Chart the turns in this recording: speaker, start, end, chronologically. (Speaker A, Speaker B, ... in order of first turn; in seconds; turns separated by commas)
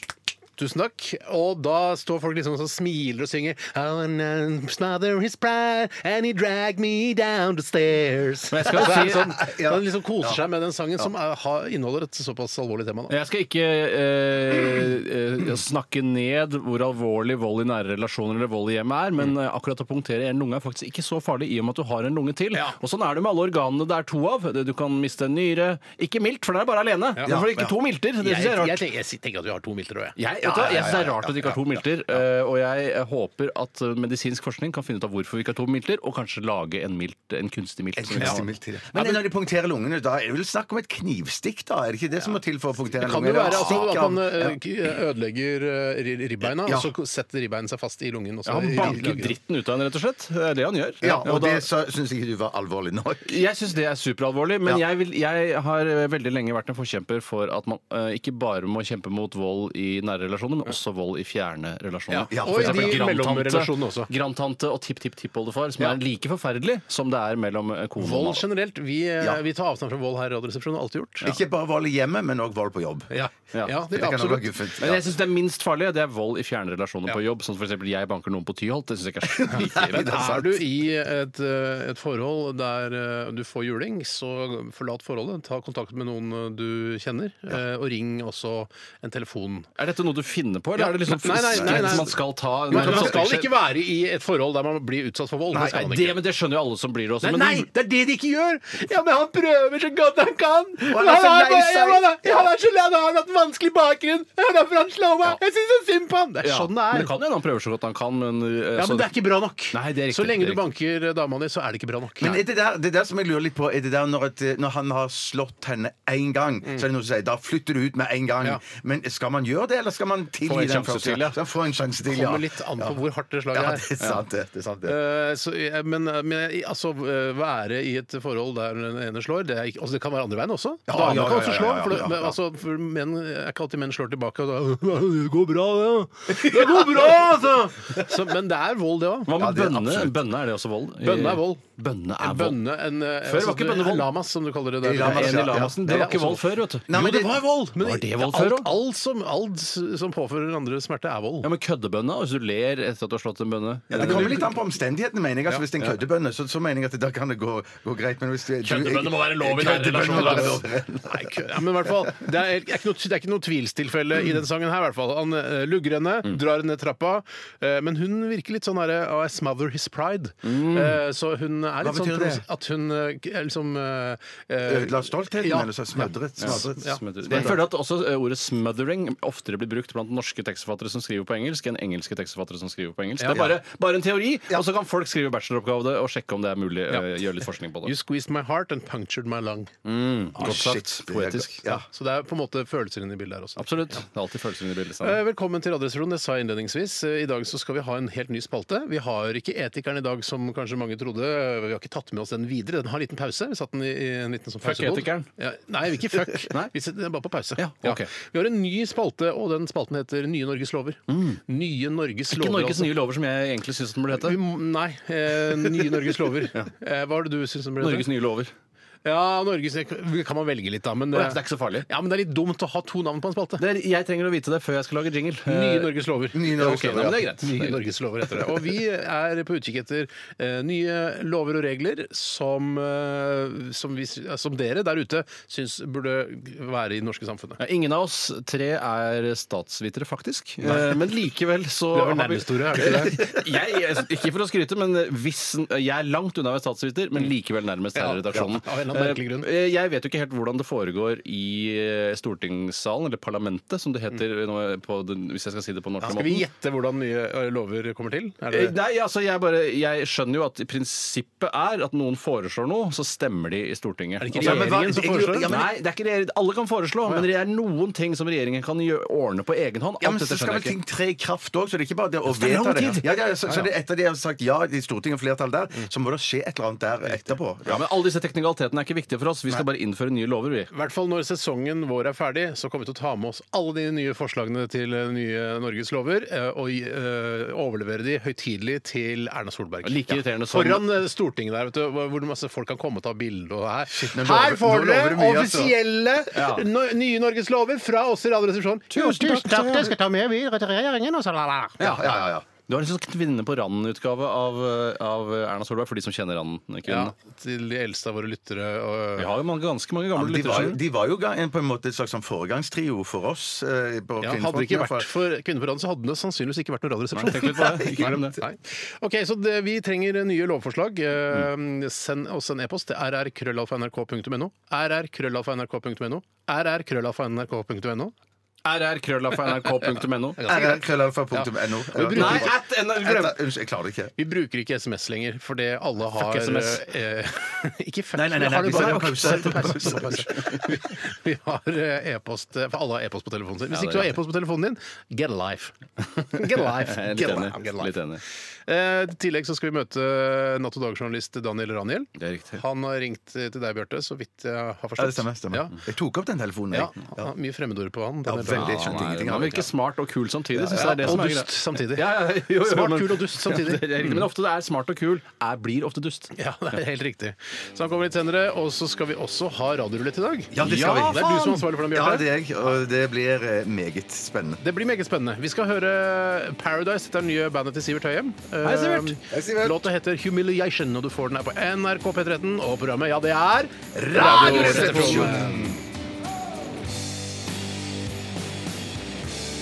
Speaker A: 0.6-13.1, Speaker B: 8.5-9.4, Speaker C: 8.7-10.4, Speaker B: 13.1-28.8, Speaker C: 27.2-27.7, Speaker A: 28.2-30.2, Speaker B: 30.2-39.2, Speaker C: 30.4-32.2, Speaker C: 38.0-44.6, Speaker A: 43.0-49.3, Speaker B: 43.5-43.8, Speaker C: 46.4-46.9, Speaker B: 48.5-51.7, Speaker C: 51.0-53.4, Speaker B: 53.2-68.4, Speaker A: 62.1-64.1, Speaker C: 62.3-63.0, Speaker A: 68.0-71.3, Speaker C: 71.2-73.1, Speaker A: 73.1-74.5, Speaker C: 73.9-75.0, Speaker B: 74.8-80.5, Speaker C: 79.5-80.4, Speaker A: 79.8-89.7, Speaker B: 89.8-93.6, Speaker A: 90.8-92.2, Speaker C: 91.5-92.1, Speaker A: 92.7-96.2, Speaker C: 92.7-93.2, Speaker B: 95.5-97.7, Speaker A: 97.2-107.1, Speaker C: 100.8-102.5, Speaker B: 106.4-109.2, Speaker A: 108.8-112.4, Speaker B: 109.7-110.7, Speaker C: 112.2-123.0, Speaker B: 120.4-121.4, Speaker A: 122.1-124.0, Speaker C: 123.5-124.9, Speaker A: 124.8-139.3, Speaker C: 130.9-132.3, Speaker C: 136.3-137.1, Speaker B: 139.3-142.6, Speaker C: 139.3-140.2, Speaker A: 141.0-141.6, Speaker A: 142.2-151.5, Speaker B: 143.2-144.1, Speaker C: 144.8-146.3, Speaker B: 145.0-146.9, Speaker C: 146.8-147.4, Speaker B: 147.8-148.7, Speaker B: 151.4-154.5, Speaker C: 153.9-161.3, Speaker B: 158.6-160.6, Speaker A: 160.2-177.6, Speaker B: 170.4-171.0, Speaker C: 171.8-172.4, Speaker C: 174.6-177.6, Speaker B: 176.4-187.9, Speaker A: 183.2-183.5, Speaker A: 187.8-189.7, Speaker B: 189.8-191.8, Speaker C: 190.4-191.8, Speaker A: 191.9-194.0, Speaker B: 193.6-195.2, Speaker A: 195.0-212.9, Speaker B: 204.6-205.3, Speaker B: 207.6-208.1, Speaker B: 211.1-211.4, Speaker B: 212.3-214.4, Speaker A: 214.2-218.1, Speaker B: 217.8-218.5, Speaker A: 219.0-223.6, Speaker B: 221.1-221.9, Speaker B: 223.6-225.9, Speaker A: 225.4-237.6, Speaker C: 226.3-227.3, Speaker B: 226.5-227.8, Speaker B: 237.6-256.4, Speaker A: 240.6-241.0, Speaker A: 241.9-243.2, Speaker A: 247.9-249.5, Speaker A: 256.0-258.7, Speaker B: 258.5-264.7, Speaker A: 264.2-265.5, Speaker C: 264.3-265.7, Speaker B: 265.4-270.8, Speaker C: 270.0-277.8, Speaker B: 272.3-273.0, Speaker B: 277.6-280.7, Speaker A: 280.7-301.8, Speaker B: 289.8-290.9, Speaker C: 294.0-295.8, Speaker B: 296.3-296.7, Speaker B: 298.9-299.9, Speaker C: 301.8-302.5, Speaker B: 301.8-307.1, Speaker A: 306.9-309.3, Speaker B: 309.2-310.8, Speaker C: 310.1-315.1, Speaker A: 314.2-328.1, Speaker B: 317.1-318.4, Speaker B: 328.6-330.7, Speaker A: 330.4-330.8, Speaker C: 330.5-334.1, Speaker A: 331.3-332.6, Speaker B: 332.0-333.4, Speaker A: 334.2-347.9, Speaker B: 336.2-336.9, Speaker C: 338.1-340.6, Speaker B: 343.7-344.1, Speaker B: 346.6-348.2, Speaker A: 348.6-355.7, Speaker B: 352.2-352.6, Speaker C: 355.0-357.3, Speaker A: 356.7-358.9, Speaker C: 358.2-359.7, Speaker B: 358.5-366.3, Speaker C: 360.6-361.2, Speaker A: 360.7-364.2, Speaker A: 366.4-372.3, Speaker C: 370.5-374.6, Speaker B: 370.6-371.6, Speaker A: 374.6-385.8, Speaker B: 378.6-379.2, Speaker C: 379.3-379.8, Speaker C: 384.0-385.8, Speaker B: 384.1-385.6